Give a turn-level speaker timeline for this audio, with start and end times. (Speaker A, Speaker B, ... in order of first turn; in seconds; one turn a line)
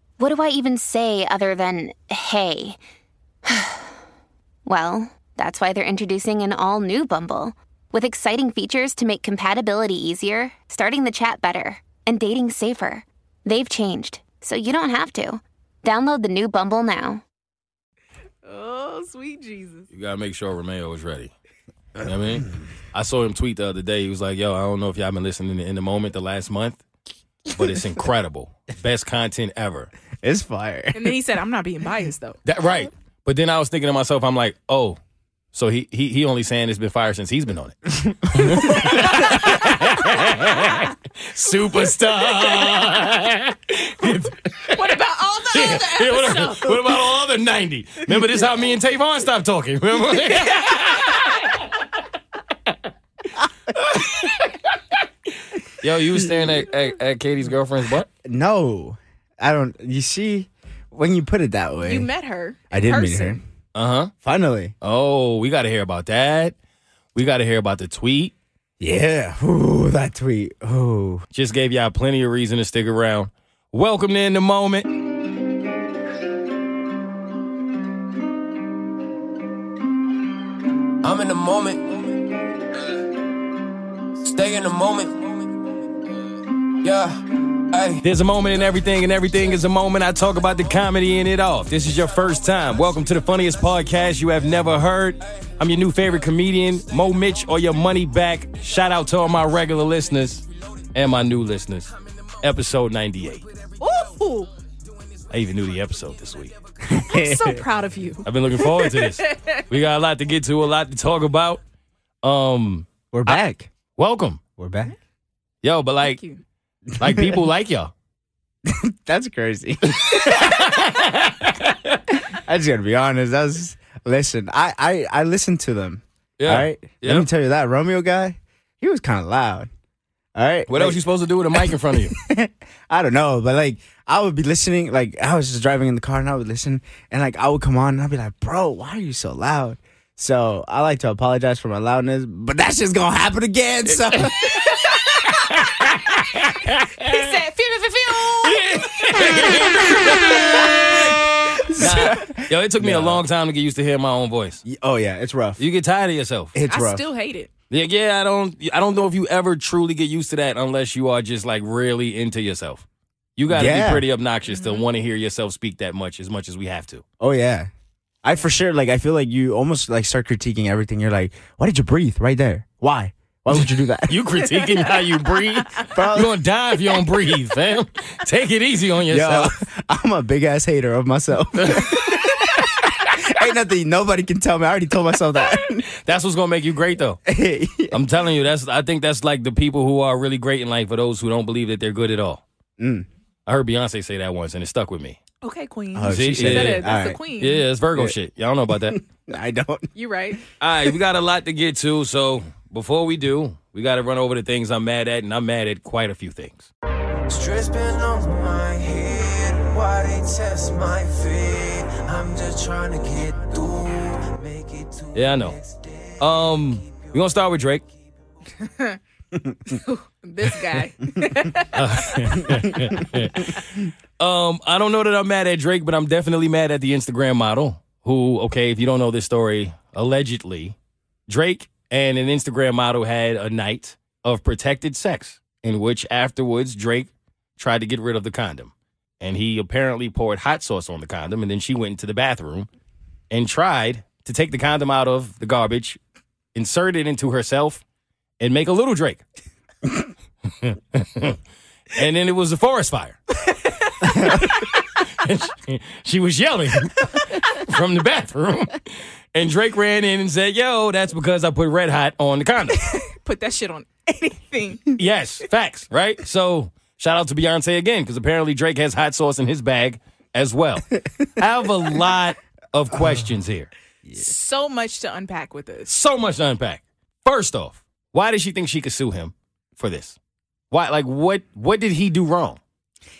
Speaker A: 0.2-2.8
Speaker A: 3.4-3.9
Speaker A: 4.7-17.2
Speaker B: 18.4-19.9
Speaker C: 19.9-21.3
Speaker C: 22.0-26.8
Speaker C: 27.5-29.9
Speaker D: 30.2-31.1
Speaker B: 30.9-32.4
Speaker C: 32.4-35.0
Speaker C: 35.5-51.8
Speaker D: 38.0-38.9
Speaker B: 44.7-47.0
Speaker C: 53.7-54.8
Speaker C: 55.6-58.1
Speaker D: 58.2-62.1
Speaker B: 61.8-63.4
Speaker D: 62.7-63.4
Speaker C: 63.7-64.1
Speaker D: 64.2-64.7
Speaker C: 64.8-66.5
Speaker C: 67.1-68.3
Speaker D: 68.8-71.2
Speaker C: 71.3-74.9
Speaker E: 81.0-82.1
Speaker E: 84.2-85.3
Speaker E: 86.8-88.0
Speaker C: 88.0-103.7
Speaker B: 103.8-104.5
Speaker C: 105.2-106.5
Speaker D: 106.9-107.6
Speaker B: 107.1-109.6
Speaker C: 108.2-111.6
Speaker C: 112.2-113.4
Speaker D: 113.1-113.7
Speaker C: 114.0-114.4
Speaker D: 114.6-114.9
Speaker C: 115.6-116.2
Speaker B: 116.0-116.4
Speaker D: 117.0-117.4
Speaker C: 117.0-117.9
Speaker D: 118.7-120.6
Speaker C: 119.9-122.0
Speaker D: 122.3-129.7
Speaker C: 126.4-127.3
Speaker D: 130.3-131.0
Speaker C: 130.7-132.1
Speaker D: 131.6-144.5
Speaker C: 144.0-147.3
Speaker B: 147.0-150.7
Speaker C: 148.2-154.6
Speaker D: 151.7-153.2
Speaker D: 154.6-155.6
Speaker C: 155.6-156.5
Speaker D: 156.5-157.1
Speaker B: 156.7-157.5
Speaker C: 157.7-162.8
Speaker C: 163.3-167.0
Speaker D: 163.5-164.1
Speaker B: 164.4-164.9
Speaker D: 167.2-167.7
Speaker D: 168.2-174.3
Speaker C: 173.5-179.6
Speaker B: 174.4-175.9
Speaker D: 175.9-176.4
Speaker D: 179.1-185.8
Speaker C: 181.5-182.4
Speaker C: 185.6-187.2
Speaker D: 187.2-188.0
Speaker C: 187.9-192.4
Speaker D: 192.8-193.1
Speaker C: 193.4-195.2
Speaker B: 195.4-197.6
Speaker D: 195.9-197.2
Speaker C: 196.1-196.8
Speaker C: 197.4-199.0
Speaker D: 198.7-199.9
Speaker B: 199.9-200.4
Speaker C: 200.6-206.7
Speaker E: 207.3-215.8
Speaker C: 215.1-215.6
Speaker C: 216.2-217.8
Speaker B: 218.6-219.0
Speaker B: 219.7-223.6
Speaker C: 221.7-223.6
Speaker C: 224.2-230.8
Speaker C: 231.3-242.7
Speaker C: 243.3-246.0
Speaker C: 246.5-247.8
Speaker C: 248.4-249.2
Speaker C: 250.6-251.4
Speaker C: 251.9-253.2
Speaker B: 253.4-254.7
Speaker D: 254.0-254.4
Speaker C: 254.2-262.8
Speaker B: 262.7-265.0
Speaker C: 264.9-273.7
Speaker D: 274.0-274.3
Speaker B: 274.1-275.9
Speaker C: 275.9-280.1
Speaker C: 280.7-282.6